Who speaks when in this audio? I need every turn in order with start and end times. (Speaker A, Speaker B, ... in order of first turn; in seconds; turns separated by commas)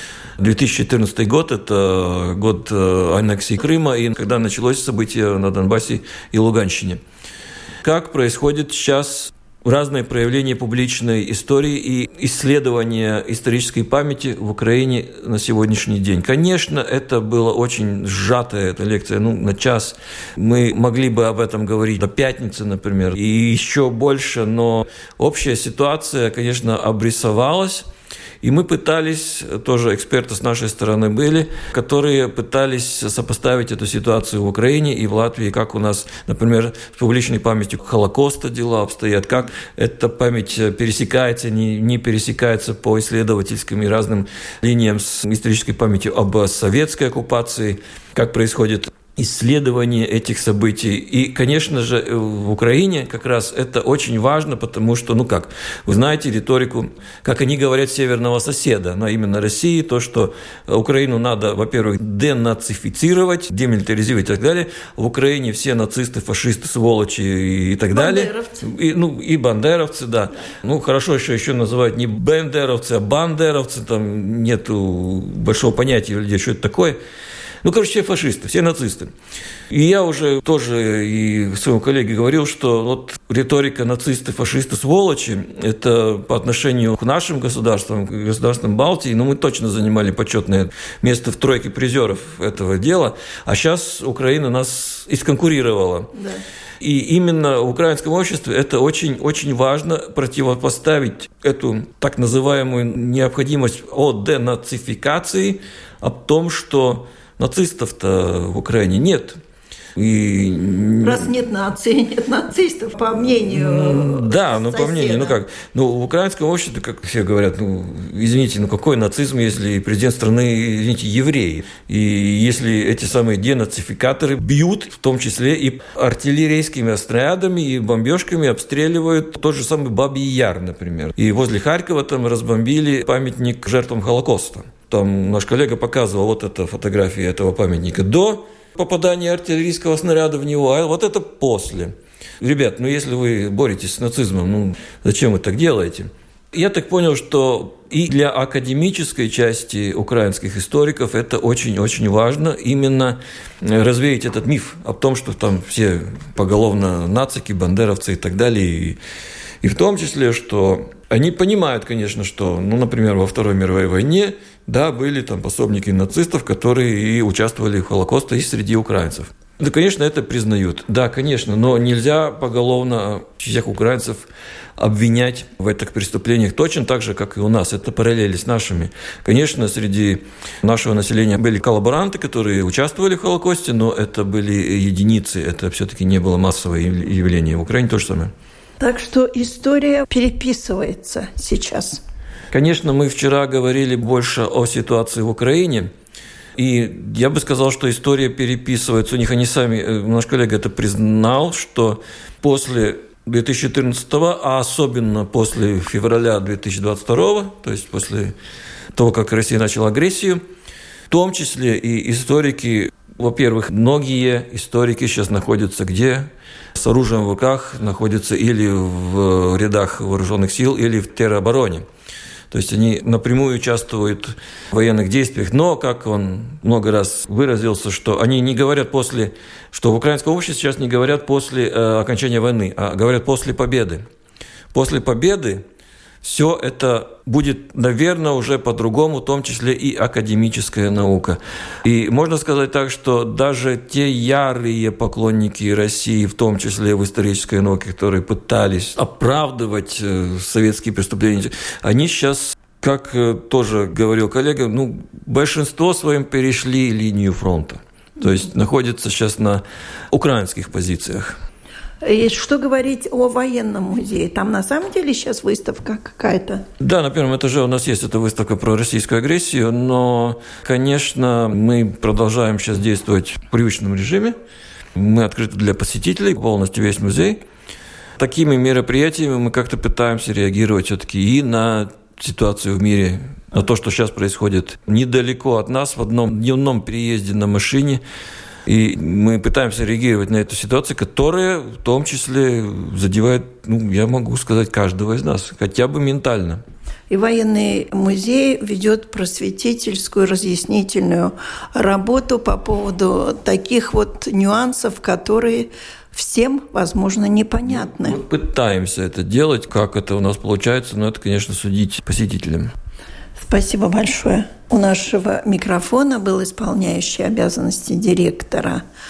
Speaker A: 0.4-7.0, Speaker A: 7.8-27.9, Speaker A: 28.4-77.0, Speaker B: 67.9-68.6, Speaker A: 77.6-79.1, Speaker A: 79.7-96.1, Speaker B: 96.1-96.4, Speaker A: 96.8-109.4, Speaker A: 110.0-111.3, Speaker B: 111.0-115.4, Speaker A: 113.5-159.0, Speaker A: 159.6-188.3, Speaker B: 188.8-192.0, Speaker A: 192.5-195.9, Speaker A: 196.6-208.3, Speaker A: 208.9-210.4, Speaker A: 211.1-221.8, Speaker A: 222.5-234.0, Speaker A: 234.7-235.6, Speaker A: 236.2-261.4, Speaker B: 262.0-266.6, Speaker A: 266.8-274.4, Speaker A: 274.9-277.4, Speaker A: 278.2-288.0, Speaker A: 288.6-296.6, Speaker B: 297.1-308.2, Speaker A: 307.6-312.7, Speaker B: 313.4-318.8